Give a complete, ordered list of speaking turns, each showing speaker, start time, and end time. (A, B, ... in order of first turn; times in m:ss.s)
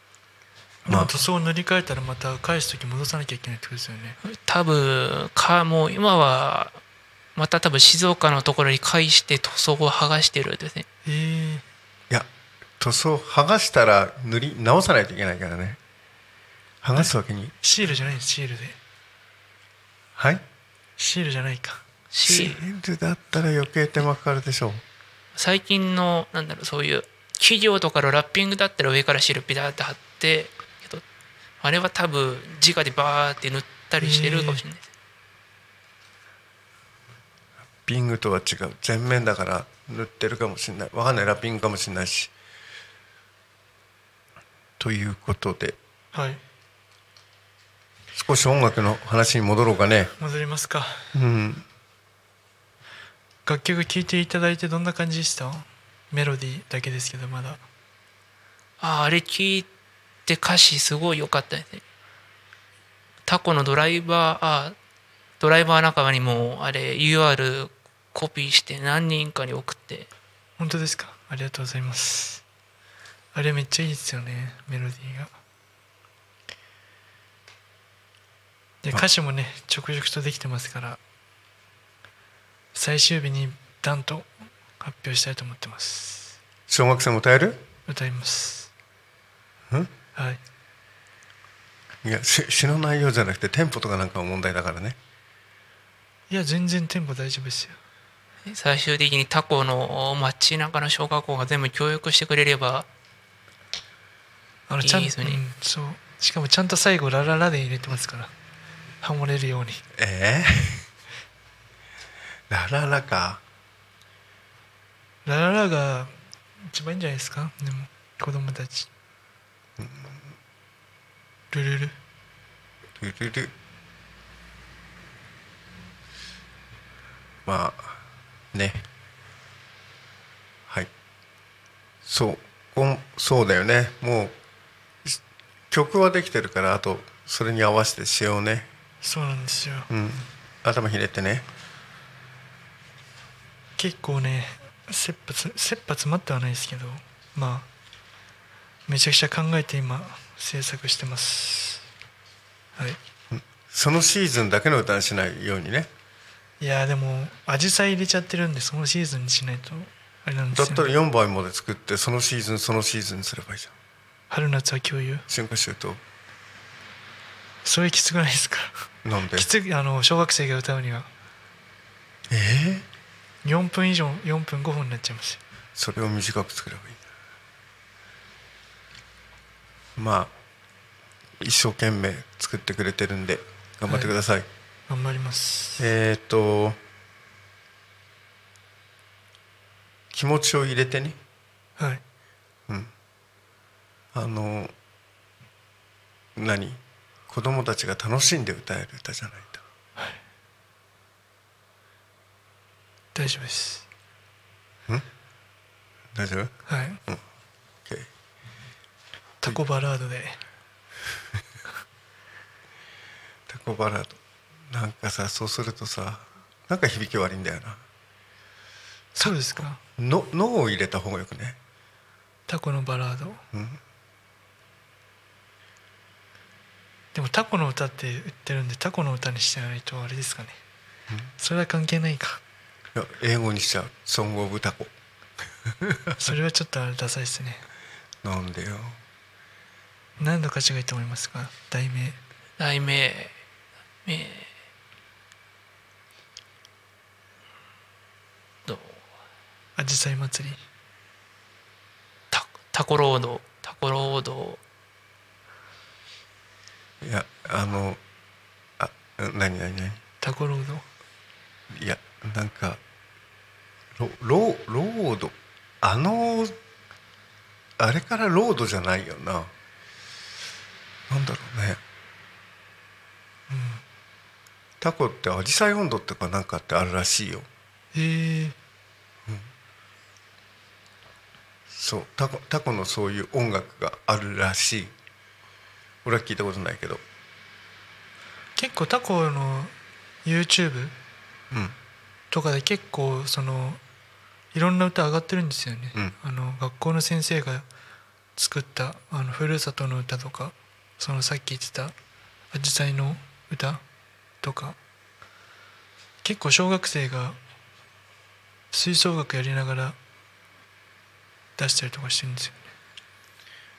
0:00.8-0:01.1 A
0:00.9-0:04.2 B
0:04.2-0:06.8 C
0:07.4-0:10.8 C
0:11.0-0:11.6 B
0:12.8-0:15.8 A
0:16.8-0:17.5 A
0:17.6-0:18.8 B
0:20.2-0:20.4 A
0:21.0-0:21.8 B
0:22.1-0:22.6 C
0:22.2-0:24.8 A
0:25.4-0:31.0 C
0:31.6-0:34.9 C
0:34.0-0:34.6 B
0:37.8-0:42.3 A
0:44.8-0:45.8 A
0:46.1-0:46.4 B
0:48.1-0:50.1 A
0:50.2-0:51.1 B
0:51.1-0:51.6 A
0:53.4-0:57.6 B
0:58.8-0:59.7 C
1:00.2-1:01.8 C
1:03.2-1:04.7 C
1:05.4-1:10.1 C
1:10.6-1:12.4 B
1:13.3-1:15.3 B
1:18.8-1:21.0 B
1:22.7-1:26.4 B
1:26.7-1:27.7 A
1:27.9-1:28.7 B
1:30.1-1:30.4 B
1:32.0-1:35.0 A
1:36.3-1:37.8 B
1:38.4-1:42.9 C
1:44.7-1:48.3 B
1:44.8-1:45.4 C
1:49.0-1:49.8 B
1:49.9-1:50.9 A
1:52.5-1:53.4 A
1:55.2-1:58.9 B
1:59.8-2:00.3 A
2:01.5-2:02.0 B
2:03.0-2:03.5 A
2:07.4-2:08.0 A
2:08.5-2:08.8 A
2:12.0-2:14.3 A
2:15.0-2:18.7 A
2:19.0-2:19.9 B
2:19.9-2:21.5 A
2:23.8-2:27.7 B
2:28.9-2:31.8 B
2:33.3-2:35.9 A
2:36.6-2:40.9 B
2:40.5-2:43.7 A
2:44.3-2:45.3 B
2:45.3-2:46.0 A
2:47.6-2:51.1 B
2:49.0-2:49.5 A
2:52.3-2:52.9 A
2:53.4-2:55.4 B
2:55.8-2:57.0 A
3:00.0-3:00.3 A
3:01.4-3:04.5 A
3:04.9-3:05.8 B
3:05.8-3:06.8 A
3:10.1-3:11.2 A
3:11.8-3:12.0 B
3:14.1-3:14.7 A
3:16.4-3:19.6 A
3:23.1-3:23.8 B
3:26.1-3:26.5 A
3:26.7-3:27.0 B
3:29.4-3:30.4 B
3:33.5-3:37.8 A
3:39.1-3:39.8 B
3:39.2-3:41.6 A
3:42.5-3:43.4 B
3:43.5-3:43.8 A
3:47.1-3:50.6 B
3:51.4-3:52.4 B
3:52.9-3:54.9 A
3:55.7-3:56.2 A
3:56.2-3:57.6 B
3:58.2-3:59.0 A
4:00.2-4:02.2 B
4:02.6-4:03.3 C
4:04.0-4:04.5 C
4:08.7-4:09.0 C
4:09.8-4:10.6 B
4:12.3-4:14.6 C
4:17.0-4:18.0 A
4:18.8-4:20.0 A
4:20.2-4:20.8 B
4:21.7-4:22.8 A
4:24.0-4:26.6 A
4:27.8-4:29.5 A
4:31.1-4:31.8 A
4:33.5-4:33.8 B
4:34.8-4:37.5 A
4:37.9-4:38.6 B
4:41.7-4:44.9 A
4:46.0-4:47.0 A
4:48.6-4:49.7 B
4:50.2-4:50.9 B
4:51.5-4:51.8 A
4:52.3-4:53.8 B
4:54.5-4:57.6 B
4:58.4-5:01.9 B
5:02.5-5:03.8 B
5:04.4-5:04.8 B
5:06.2-5:07.4 B
5:08.7-5:10.0 B
5:11.6-5:12.7 B